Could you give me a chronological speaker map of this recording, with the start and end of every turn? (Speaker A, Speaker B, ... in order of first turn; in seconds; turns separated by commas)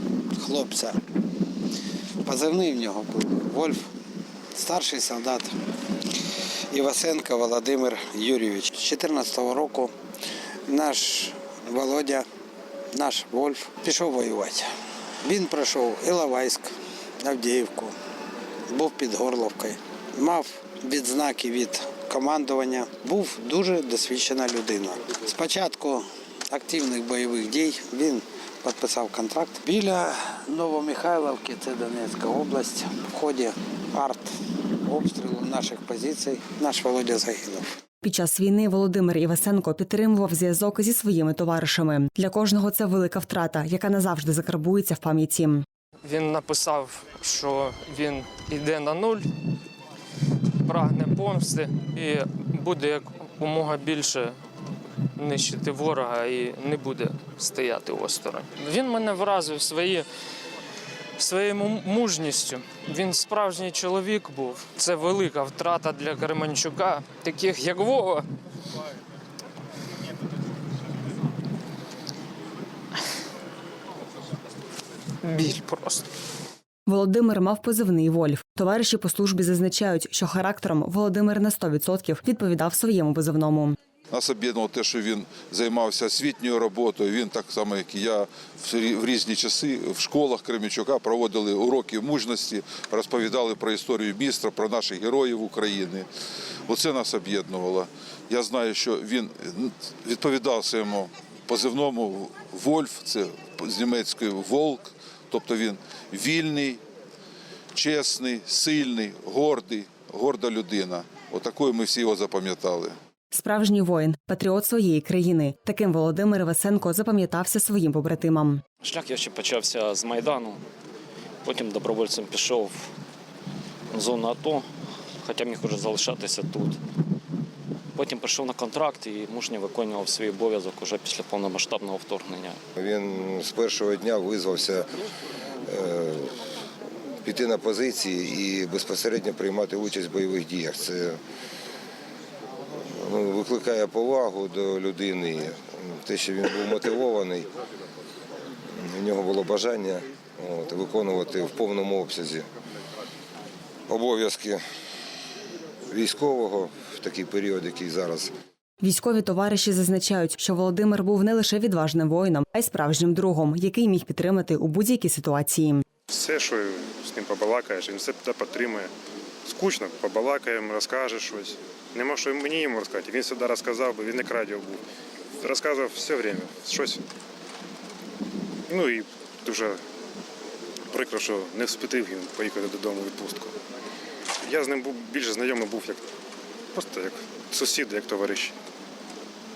Speaker A: 0.3-1.0, Speaker A: 2.2-3.9, Speaker A: 4.5-5.5, Speaker A: 6.1-9.9, Speaker A: 10.7-12.3, Speaker A: 12.9-14.7, Speaker A: 15.2-17.9, Speaker A: 18.7-37.7, Speaker B: 38.0-45.6, Speaker C: 46.0-49.3, Speaker C: 50.7-54.4, Speaker C: 55.2-60.1, Speaker C: 61.2-68.3, Speaker C: 75.2-76.1, Speaker B: 76.9-83.8, Speaker D: 84.1-96.1, Speaker D: 96.7-106.8, Speaker D: 107.8-113.0, Speaker B: 113.3-118.6, Speaker E: 118.8-120.6, Speaker E: 121.4-122.9, Speaker E: 123.9-124.7, Speaker E: 125.2-126.8, Speaker E: 128.0-132.6, Speaker F: 132.8-134.9, Speaker F: 135.6-136.3, Speaker F: 137.2-141.2, Speaker F: 142.8-147.5, Speaker F: 148.7-152.5, Speaker F: 153.9-154.6, Speaker F: 155.9-158.3, Speaker B: 158.8-165.8, Speaker G: 166.1-168.9, Speaker G: 169.5-174.8, Speaker G: 175.4-177.0, Speaker G: 178.7-179.8, Speaker G: 180.9-183.6, Speaker G: 184.4-186.0, Speaker G: 186.7-188.6